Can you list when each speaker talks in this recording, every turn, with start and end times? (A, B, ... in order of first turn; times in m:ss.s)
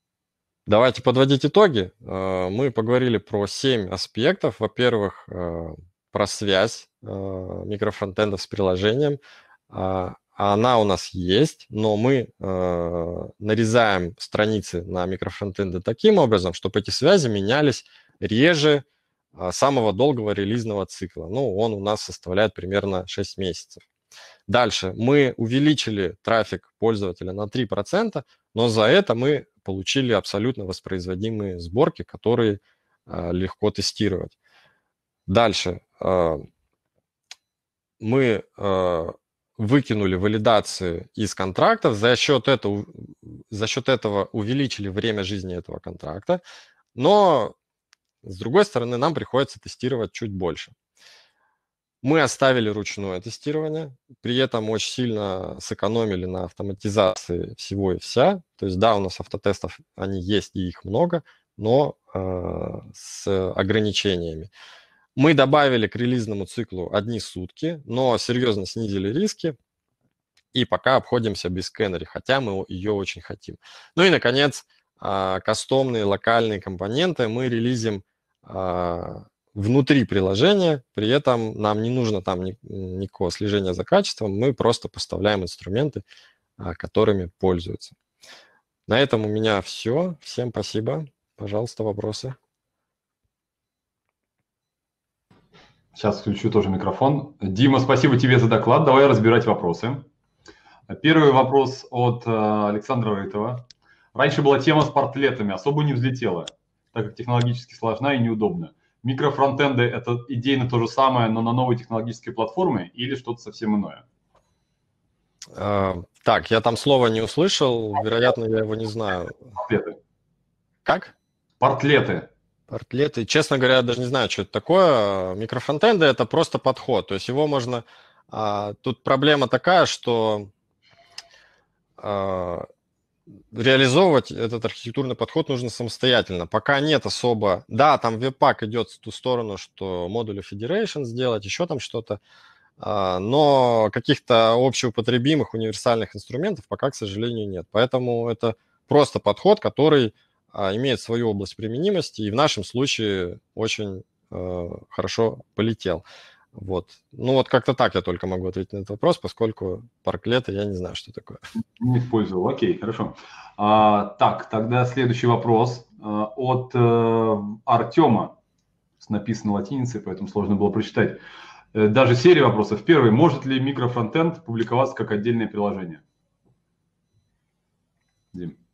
0:00.7-0:09.2 A
0:09.7-0:23.8 A
0:24.5-0:34.4 A
0:35.3-0:36.4 A
0:38.0-0:46.4 A
0:47.0-0:47.6 A
0:48.2-0:50.7 A
0:52.0-1:04.5 A
1:05.2-1:09.6 A
1:10.5-1:26.0 A
1:26.6-1:28.0 A
1:28.9-1:32.4 A
1:36.0-1:40.1 B
1:40.9-1:54.0 B
1:55.6-1:59.4 A
1:59.6-2:00.0 B
2:00.8-2:01.1 A
2:01.6-2:02.3 B
2:02.7-2:10.5 A
2:12.0-2:12.7 A
2:13.5-2:22.2 A
2:22.8-2:36.0 A
2:36.6-2:41.4 A
2:41.8-2:48.4 B
2:49.0-2:51.2 B
2:51.7-2:56.0 B